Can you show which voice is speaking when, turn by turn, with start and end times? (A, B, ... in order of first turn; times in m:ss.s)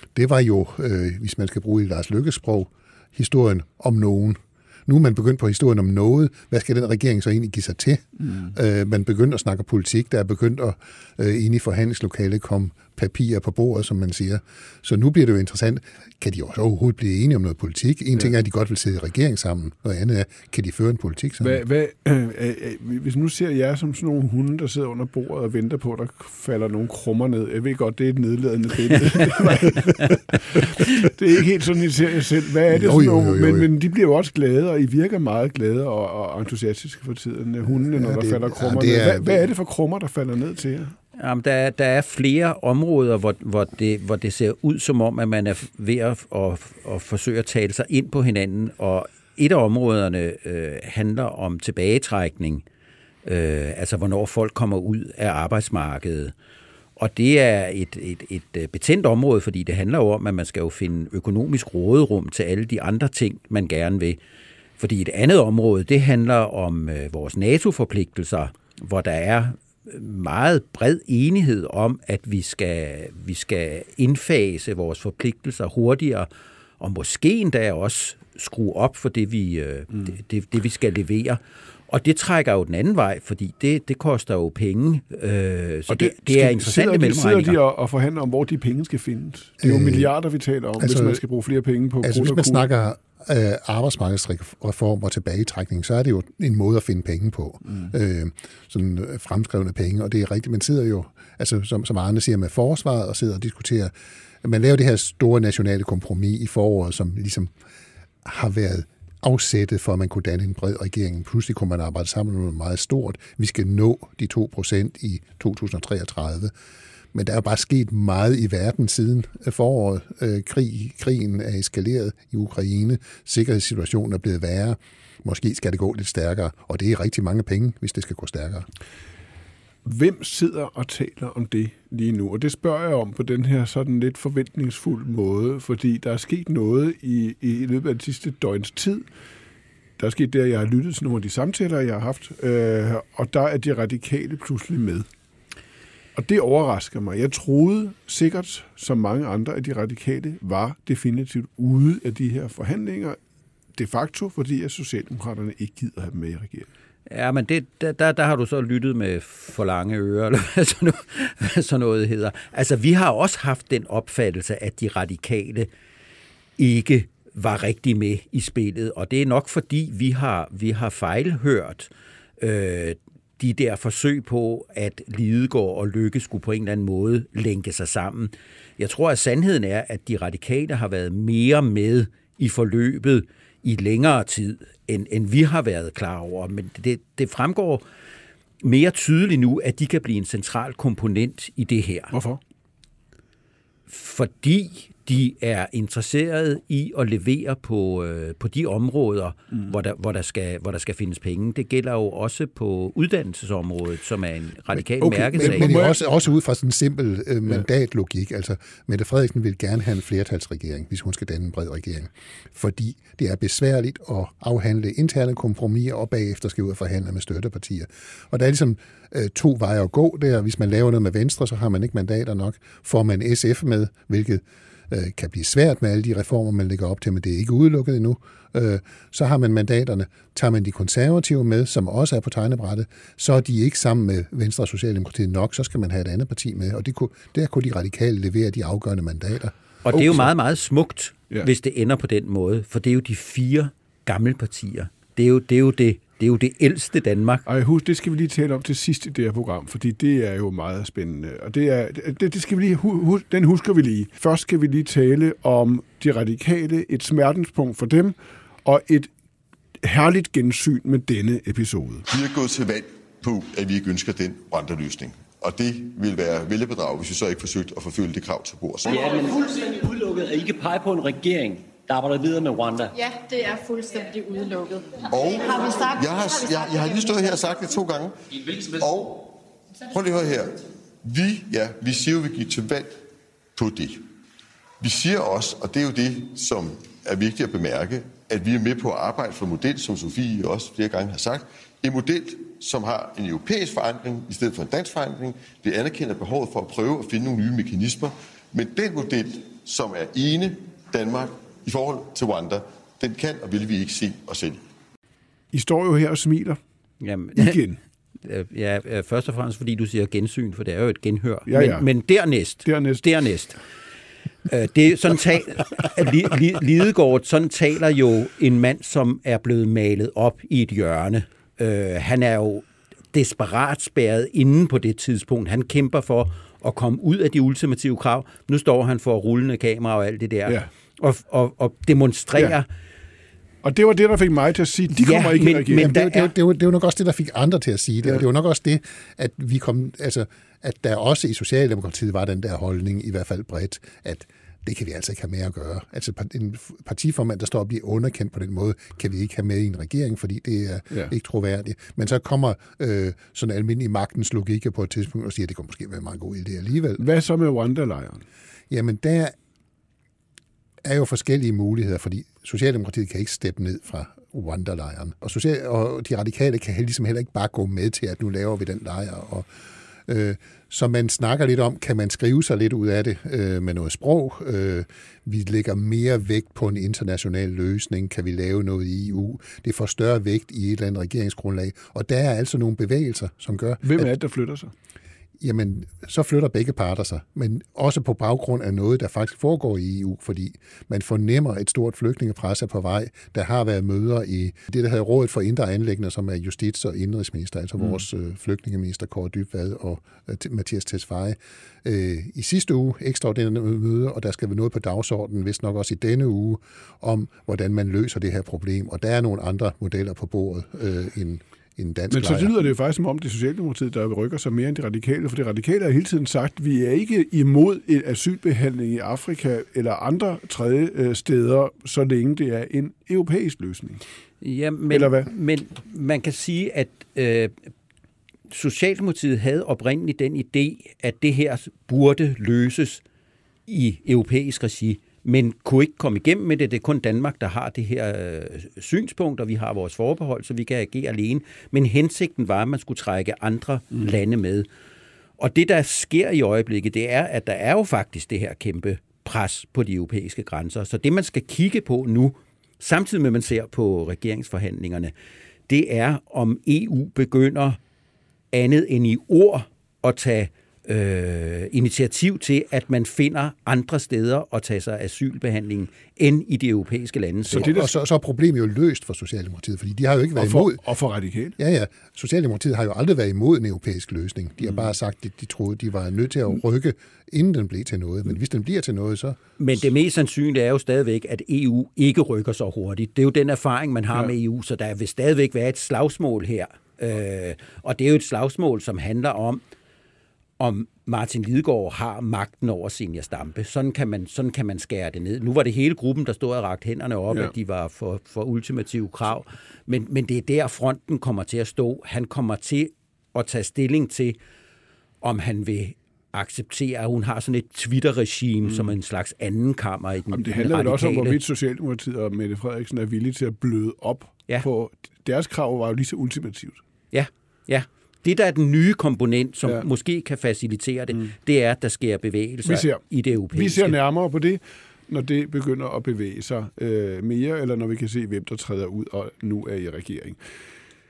0:00.1-0:21.6 A
0:21.4-0:41.0 B
0:32.7-0:33.7 A
0:37.7-0:39.4 A
0:41.2-0:52.6 C
0:53.2-0:56.3 C
0:57.0-1:04.2 C
1:04.8-1:27.6 C
1:25.9-1:32.6 B
1:29.6-1:30.1 A
1:30.8-1:31.2 A
1:32.0-1:47.5 A
1:48.2-1:56.5 A
1:57.1-2:08.7 A
2:09.8-2:19.0 B
2:20.0-2:25.1 B
2:26.1-2:33.2 B
2:33.8-2:36.7 B
2:37.1-2:45.7 C
2:46.6-3:07.8 C
3:08.6-3:12.1 C
3:12.1-3:12.4 B
3:13.9-3:25.8 C
3:25.0-3:26.0 B
3:25.3-3:59.5 A
3:59.8-4:07.4 C
3:59.9-4:00.3 B
4:07.5-4:19.1 B
4:19.8-4:22.1 B
4:22.1-4:29.0 D
4:28.9-4:32.9 E
4:32.9-4:35.1 F
4:35.1-4:43.0 D
4:43.6-4:44.0 D
4:44.8-5:04.6 D
5:05.5-5:06.6 B
5:07.0-5:07.6 C
5:07.3-5:07.8 B
5:08.2-5:13.6 C
5:11.5-5:11.9 B
5:12.6-5:13.1 B
5:14.5-5:32.7 C
5:33.6-5:35.9 B
5:35.0-5:36.3 C
5:35.7-5:57.0 A
5:57.0-5:58.2 B
5:58.7-5:59.4 A
6:00.8-6:09.5 A
6:10.0-6:24.1 A
6:23.8-6:24.7 B
6:25.4-6:52.5 A
6:52.1-7:04.0 B
7:04.4-7:07.7 C
7:04.9-7:05.3 B
7:08.5-7:13.0 C
7:13.6-7:24.7 C
7:25.4-7:35.1 C
7:35.7-7:37.8 C
7:38.5-7:47.7 C
7:47.4-7:47.9 B
7:47.6-7:50.8 A
7:50.4-7:51.6 B
7:51.6-7:59.4 A
7:54.6-7:54.9 B
7:59.6-8:09.6 C
8:10.6-8:24.4 C
8:25.2-8:31.4 C
8:28.6-8:28.9 B
8:30.3-8:36.8 B
8:37.1-8:44.0 C
8:42.6-8:50.4 B